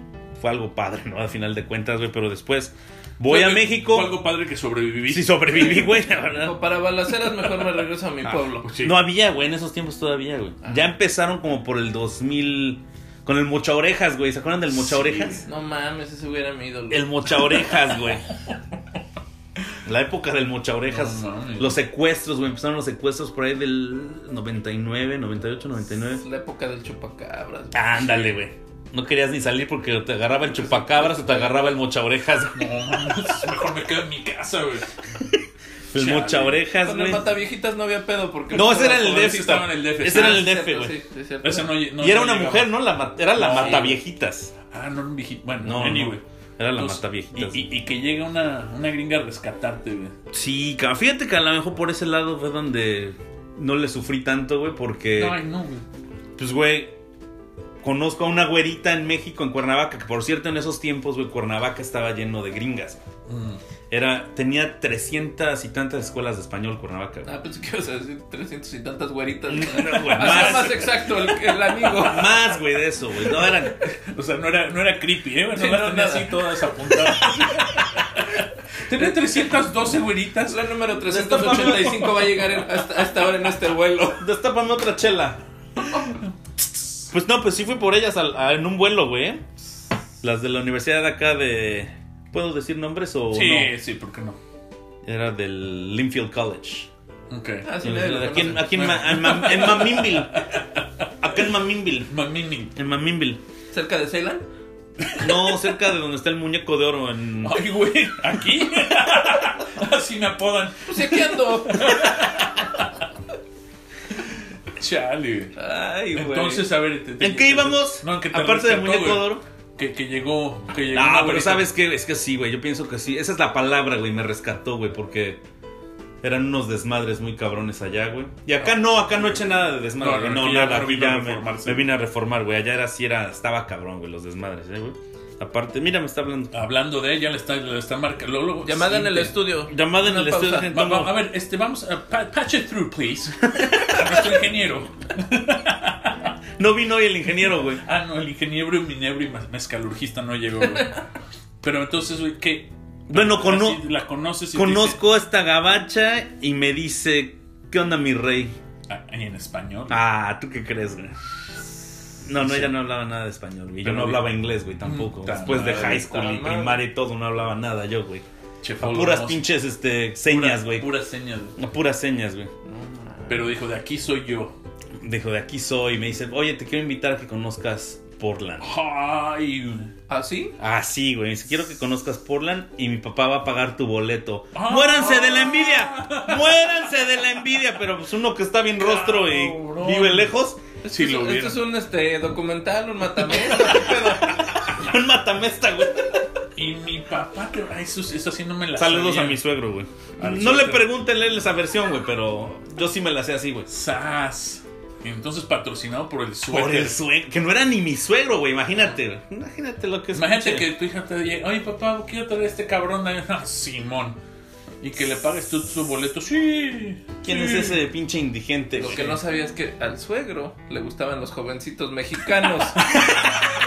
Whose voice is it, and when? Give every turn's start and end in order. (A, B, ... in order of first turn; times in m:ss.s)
0:00.4-0:04.2 A
0:03.3-0:05.9 B
0:05.1-0:06.6 A
0:06.2-0:08.7 C
0:08.6-0:09.0 B
0:08.7-0:15.4 A
0:10.6-0:10.9 C
0:14.8-0:15.4 B
0:15.4-0:17.7 C
0:16.9-0:18.2 A
0:19.8-0:26.2 A
0:20.9-0:21.8 B
0:26.2-0:28.0 C
0:27.7-0:32.7 A
0:30.5-0:31.6 C
0:32.5-0:35.0 B
0:35.9-0:37.3 A
0:35.9-0:36.6 B
0:36.8-0:41.7 C
0:38.5-0:41.0 A
0:38.9-0:40.5 B
0:41.4-0:42.7 B
0:42.0-0:44.5 A
0:43.3-0:44.0 B
0:44.7-0:46.2 B
0:45.6-0:47.6 A
0:46.8-0:50.2 B
0:50.3-0:55.4 A
0:55.2-0:55.8 B
0:56.4-0:57.0 A
0:57.8-1:03.0 A
1:03.3-1:03.6 B
1:03.9-1:07.3 A
1:07.2-1:12.5 C
1:09.5-1:11.0 A
1:10.1-1:10.8 B
1:11.8-1:13.8 A
1:13.9-1:20.6 B
1:15.5-1:17.7 C
1:20.5-1:24.3 C
1:21.1-1:22.3 A
1:21.4-1:21.9 B
1:24.2-1:25.4 A
1:27.1-1:29.4 A
1:30.2-1:33.7 A
1:33.3-1:34.4 B
1:35.0-1:36.9 A
1:37.3-1:37.7 B
1:37.6-1:38.9 C
1:37.8-1:40.4 A
1:38.6-1:41.1 B
1:41.2-1:42.1 A
1:42.1-1:42.7 B
1:42.7-1:43.4 A
1:43.7-1:44.4 C
1:45.0-1:45.5 B
1:45.2-1:47.6 A
1:47.4-1:52.9 B
1:50.9-1:52.4 C
1:54.8-1:55.6 B
1:55.6-1:56.7 C
1:56.1-2:01.7 B
1:57.2-1:59.4 A
2:00.9-2:05.4 A
2:06.2-2:16.5 A
2:10.0-2:11.8 B
2:16.5-2:19.4 B
2:18.6-2:20.7 C
2:19.6-2:21.2 A
2:20.6-2:26.3 B
2:23.6-2:24.1 A
2:26.6-2:27.8 A
2:27.8-2:31.0 B
2:31.6-2:35.0 B
2:33.1-2:33.8 A
2:34.5-2:38.6 A
2:38.9-2:40.0 B
2:39.9-2:41.1 A
2:42.2-2:48.2 A
2:42.4-2:42.7 B
2:43.8-2:46.1 B
2:45.7-2:46.8 C
2:48.6-2:49.5 B
2:48.8-2:50.9 A
2:50.3-2:51.6 B
2:51.6-2:52.5 A
2:52.6-2:53.5 C
2:53.3-2:54.6 B
2:55.0-2:58.7 A
2:58.6-2:59.9 B
3:00.1-3:00.6 C
3:00.6-3:10.6 A
3:04.5-3:06.7 B
3:08.8-3:10.4 B
3:10.8-3:14.4 C
3:10.9-3:11.7 B
3:14.4-3:16.3 A
3:16.6-3:19.4 B
3:18.8-3:23.7 A
3:20.2-3:20.9 B
3:23.7-3:27.0 B
3:26.5-3:30.7 A
3:30.1-3:34.2 B
3:34.8-3:37.8 B
3:37.2-3:39.1 A
3:38.8-3:42.9 C
3:38.8-3:39.2 B
3:42.9-3:43.5 A